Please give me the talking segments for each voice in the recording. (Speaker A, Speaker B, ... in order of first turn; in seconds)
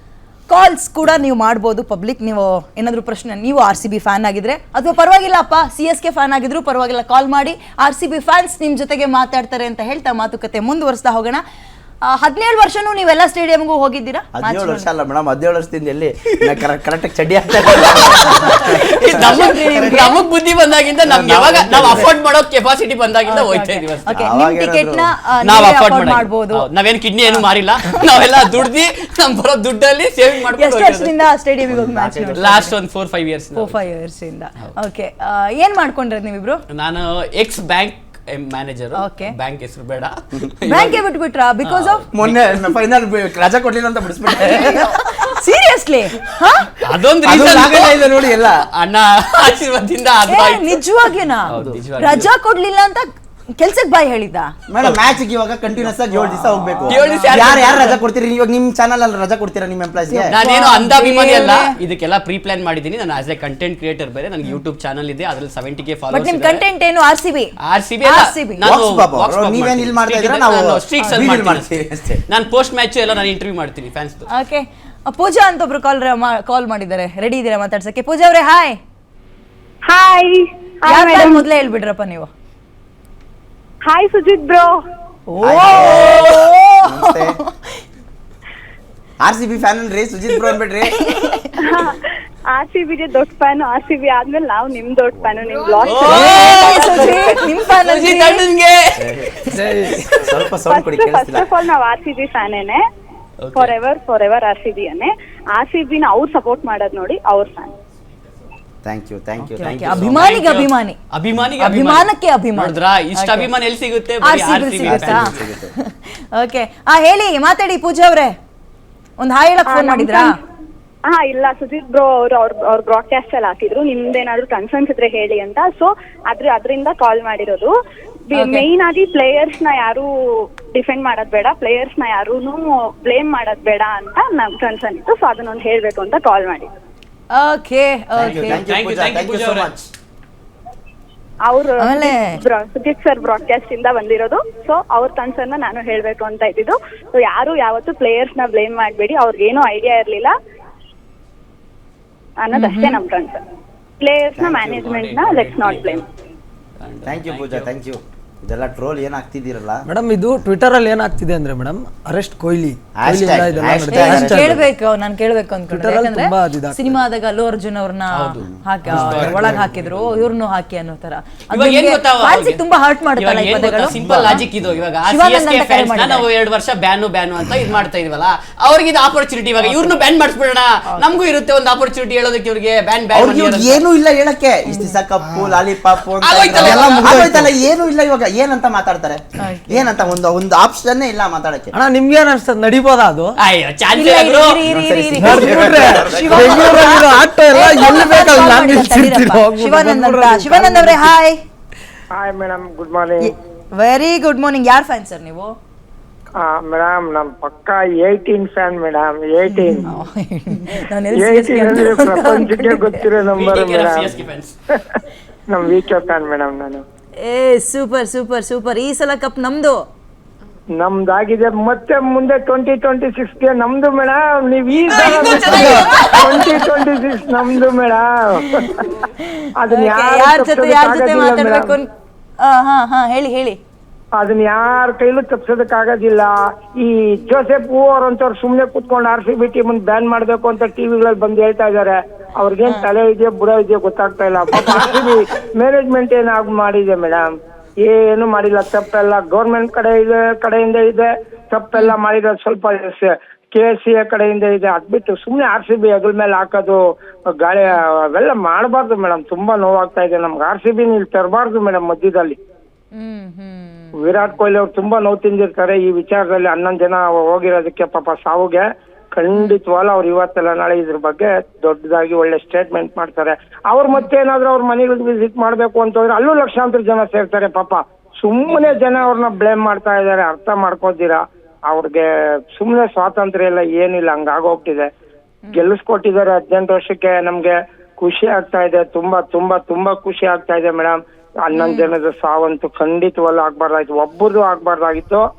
Speaker A: 0.5-11.4, 12.0-14.9, 18.5-20.2, 23.3-26.7, 30.6-32.7, 33.6-36.6, 39.0-39.3, 40.7-42.0, 44.4-46.7, 50.3-53.1, 53.6-54.5, 56.9-57.6, 60.1-61.7, 66.1-67.5, 68.0-68.6, 74.3-78.8, 80.9-82.3, 85.3-87.5, 91.0-91.5, 96.1-98.5, 109.4-111.0, 111.6-113.5, 114.2-118.4, 119.2-120.3, 128.3-128.7, 137.3-138.6, 141.8-142.4, 152.5-153.0, 163.9-174.4, 175.1-176.2, 189.4-189.9, 193.9-201.4, 203.2-205.6, 209.5-213.1, 217.2-219.9, 225.1-226.5, 229.1-231.9, 232.4-233.6, 262.9-264.0, 285.4-285.7, 291.5-291.9
Speaker B: 14.3-19.8, 21.1-22.1, 24.1-25.1, 31.7-32.5, 42.1-44.9, 47.2-48.7, 54.7-60.3, 68.6-72.2, 85.4-86.2, 86.8-87.4, 89.2-91.0, 95.1-95.4, 99.0-99.3, 100.2-101.5, 108.8-110.3, 114.8-115.7, 138.2-139.8, 154.3-154.9, 157.0-159.8, 163.0-164.7, 168.4-169.7, 173.9-174.8, 183.1-191.7, 194.6-196.9
Speaker C: 17.7-24.1, 25.4-31.1, 32.3-33.9, 36.7-41.0, 41.6-42.6, 46.8-50.8, 51.5-52.3, 55.8-56.0, 56.9-58.0, 60.3-66.6, 67.7-74.3, 95.8-100.4, 103.4-103.8, 109.6-115.5, 138.3-139.9, 154.8-156.0, 156.8-157.7, 168.1-169.6, 171.5-172.6, 173.2-183.8, 186.2-187.4, 193.4-194.6, 213.3-214.5, 224.9-226.5, 278.5-278.8
Speaker D: 79.9-81.4, 83.9-84.8, 91.7-91.9, 92.5-97.4, 100.7-102.8, 103.5-107.7, 119.7-120.3, 121.1-127.7, 128.3-130.1, 130.7-136.7, 141.4-150.3, 152.4-153.4, 154.0-156.0
Speaker E: 99.5-100.0, 159.9-164.6, 165.7-167.0, 186.6-187.4, 191.7-193.4, 195.2-201.1
Speaker F: 202.1-203.3, 206.4-209.9, 211.1-214.2, 214.7-216.8, 220.8-228.9, 229.6-231.8, 234.2-247.3, 247.8-256.8, 257.4-262.4, 264.0-284.9, 285.5-295.2